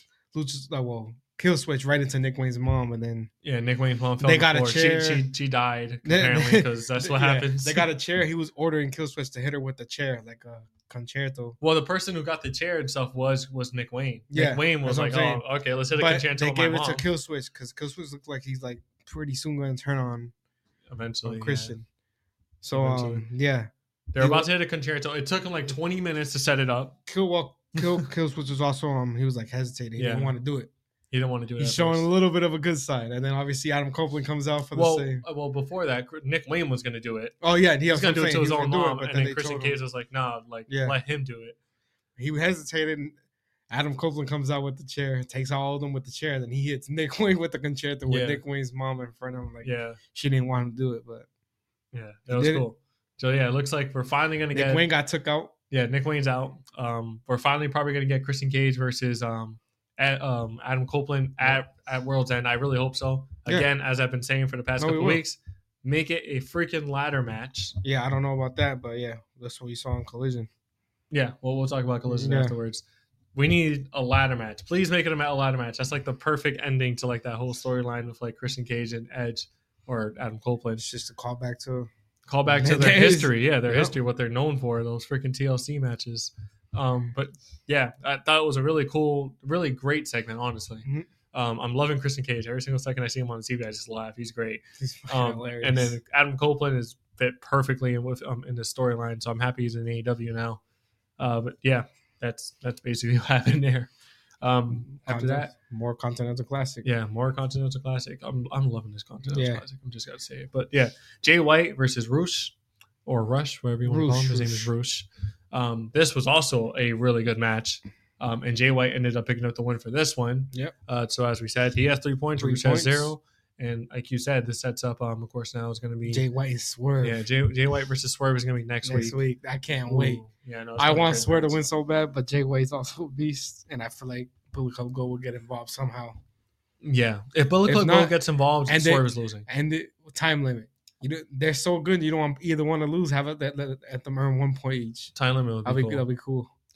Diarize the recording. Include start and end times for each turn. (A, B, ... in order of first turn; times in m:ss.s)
0:00.3-0:03.3 A
0:03.4-0:07.9 B
0:04.2-0:05.2 A
0:06.0-0:11.6 A
0:11.6-0:17.0 B
0:14.3-0:20.3 A
0:20.9-0:21.7 B
0:21.2-0:21.9 A
0:22.6-0:24.5 A
0:22.7-0:23.2 B
0:24.1-0:27.0 B
0:27.1-0:30.7 A
0:27.8-0:28.0 B
0:30.0-0:30.3 B
0:31.1-0:32.1 B
0:31.6-0:35.2 A
0:34.7-0:37.4 B
0:37.4-0:39.8 A
0:37.9-0:41.6 B
0:40.7-0:41.0 A
0:42.2-0:43.2 A
0:43.7-0:51.3 A
0:48.1-0:48.4 B
0:49.6-0:50.0 B
0:51.9-0:54.9 B
0:52.3-0:52.6 A
0:54.5-0:55.5 A
0:55.7-1:07.8 B
1:04.8-1:05.2 A
1:07.8-1:10.5 A
1:11.1-1:12.8 B
1:12.1-1:12.5 A
1:13.3-1:20.9 B
1:20.8-1:21.9 A
1:22.3-1:40.6 B
1:22.5-1:24.0 A
1:34.8-1:36.0 A
1:41.2-1:45.5 B
1:44.7-1:46.8 A
1:46.8-1:52.5 B
1:49.3-1:49.6 A
1:53.0-2:06.2 B
1:53.8-1:54.7 A
2:02.4-2:03.1 A
2:06.0-2:07.2 A
2:07.0-2:09.2 B
2:08.8-2:10.2 A
2:09.8-2:11.6 B
2:10.8-2:16.2 A
2:16.8-2:19.5 B
2:17.6-2:25.1 A
2:25.1-2:26.0 B
2:25.6-2:26.5 A